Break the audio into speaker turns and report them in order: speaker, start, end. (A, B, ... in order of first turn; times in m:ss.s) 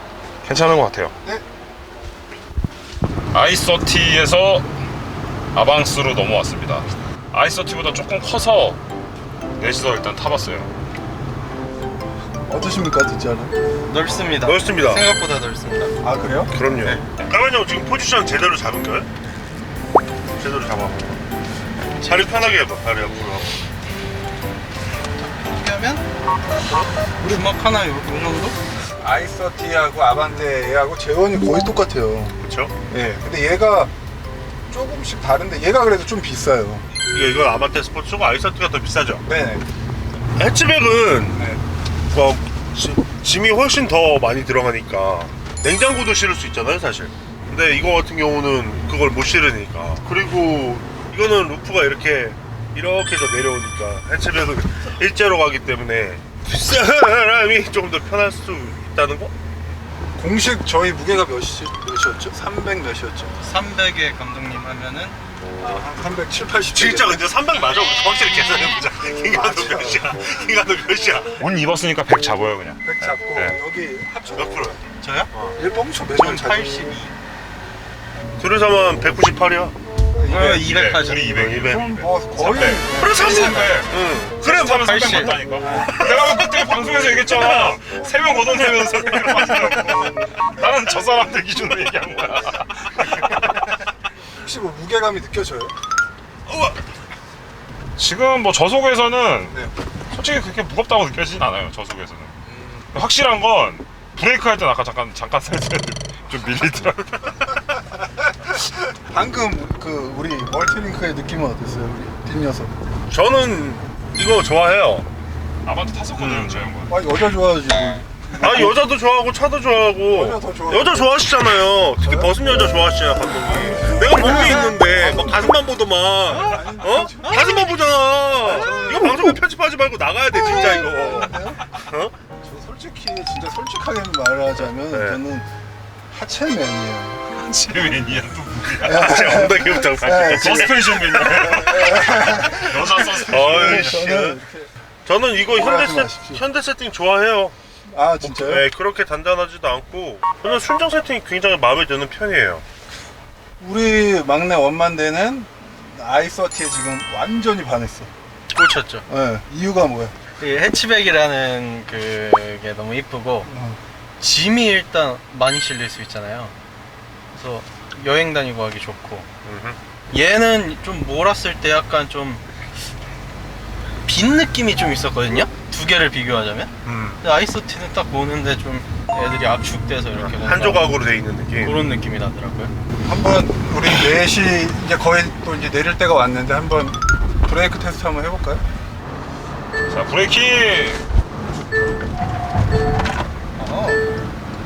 0:00.4-0:01.1 A
0:03.3-0:04.6 A
0:05.5-0:08.8 A
0:09.6-0:10.7 A
0:12.5-0:13.5 B
0:13.9-0:16.0 C
0:14.4-0:15.1 D
0:16.0-0:16.5 B
0:16.5-0:19.1 D
0:20.4-0:21.2 D
0:21.9-0:22.6 C
0:22.0-0:23.6 D
0:25.2-0:26.1 C
0:26.6-0:28.6 C
0:29.0-0:32.3 B
0:32.4-0:32.7 D
0:32.9-0:33.9 B
0:34.7-0:36.9 B
0:37.1-0:39.2 D
0:39.2-0:39.6 B
0:40.4-0:41.5 D
0:41.3-0:41.6 B
0:42.1-0:59.3 D
1:00.2-1:03.3 B
1:03.4-1:05.2 C
1:05.6-1:07.2 B
1:06.7-1:11.4 D
1:09.2-1:10.1 B
1:11.4-1:13.6 A
1:12.8-1:14.7 B
1:14.3-1:15.6 D
1:15.0-1:15.3 C
1:15.6-1:16.9 B
1:16.1-1:17.1 C
1:18.4-1:19.7 D
1:20.2-1:20.6 B
1:20.2-1:21.4 C
1:20.5-1:33.7 A
1:21.2-1:21.9 D
1:21.6-1:23.4 B
1:23.0-1:25.4 D
1:24.4-1:25.7 C
1:25.6-1:25.9 B
1:27.4-1:27.8 D
1:28.9-1:29.4 D
1:34.3-1:35.7 B
1:38.0-1:42.4 A
1:42.5-1:42.8 B
1:42.9-1:47.5 A
1:48.6-1:52.7 B
1:53.1-1:55.1 D
1:55.6-1:56.9 A
1:56.2-1:56.7 D
1:56.9-1:58.8 B
1:58.4-2:12.1 D
2:00.1-2:01.2 B
2:02.0-2:02.4 B
2:03.5-2:05.6 B
2:06.3-2:07.6 B
2:08.4-2:09.4 B
2:10.3-2:11.6 B
2:12.4-2:15.5 B
2:14.8-2:15.2 D
2:16.1-2:17.2 B
2:17.3-2:19.5 A
2:18.8-2:24.7 B
2:18.8-2:21.7 D
2:20.3-2:24.1 A
2:23.3-2:24.4 D
2:25.0-2:27.6 D
2:25.5-2:26.4 B
2:27.9-2:28.6 B
2:28.2-2:32.6 D
2:33.6-2:38.1 B
2:38.5-2:39.0 C
2:39.1-2:40.2 B
2:40.4-2:43.5 C
2:43.5-2:43.8 B
2:44.2-2:46.5 C
2:47.3-2:49.3 C
2:49.4-2:49.8 D
2:50.1-2:52.4 C
2:54.0-3:00.9 C
2:56.8-2:57.2 D
3:00.2-3:01.8 D
3:01.5-3:02.7 C
3:03.0-3:08.6 B
3:09.9-3:11.0 A
3:13.6-3:14.0 B